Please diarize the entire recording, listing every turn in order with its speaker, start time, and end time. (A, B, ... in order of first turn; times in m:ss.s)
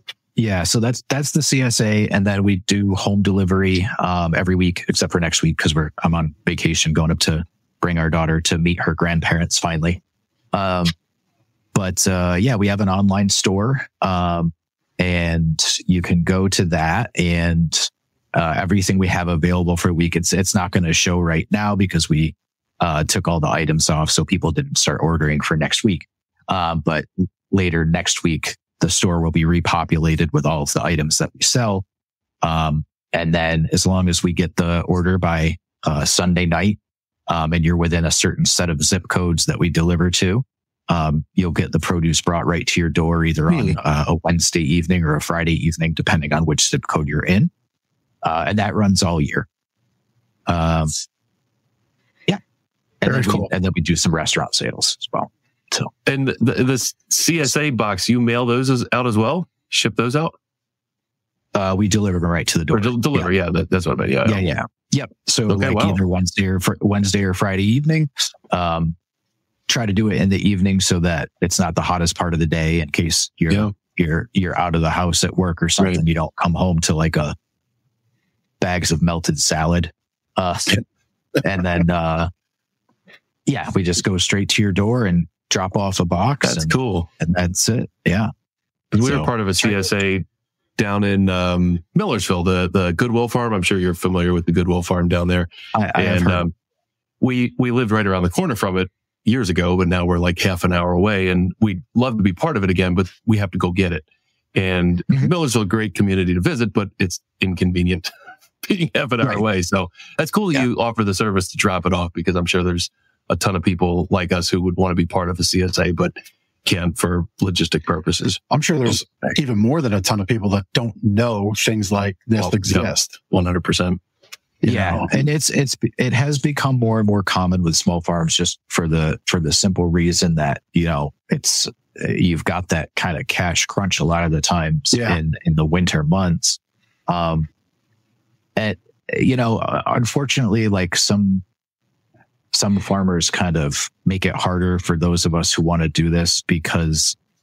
0:00.4-0:10.0 A
0:10.5-0:10.9 A
0:11.7-0:31.8 A
0:32.4-0:47.5 A
0:43.5-0:43.8 B
0:48.2-0:49.5 A
0:50.5-0:50.9 A
0:53.0-0:55.9 A
0:53.0-0:53.5 C
0:56.0-1:00.4 B
1:01.5-1:03.3 A
1:02.7-1:04.5 B
1:04.2-1:09.0 A
1:05.5-1:06.0 B
1:09.7-1:17.4 A
1:18.6-1:20.8 A
1:21.4-1:22.3 A
1:23.5-1:28.3 A
1:26.4-1:27.1 B
1:28.9-1:30.3 B
1:29.0-1:29.3 A
1:30.8-1:36.5 B
1:35.7-1:36.4 A
1:37.2-1:48.1 B
1:48.6-1:56.1 B
1:56.6-1:58.4 B
1:58.5-2:03.2 C
2:02.4-2:04.0 B
2:04.6-2:05.1 C
2:04.7-2:17.5 A
2:14.9-2:15.2 C
2:18.6-2:21.4 A
2:22.5-2:27.2 A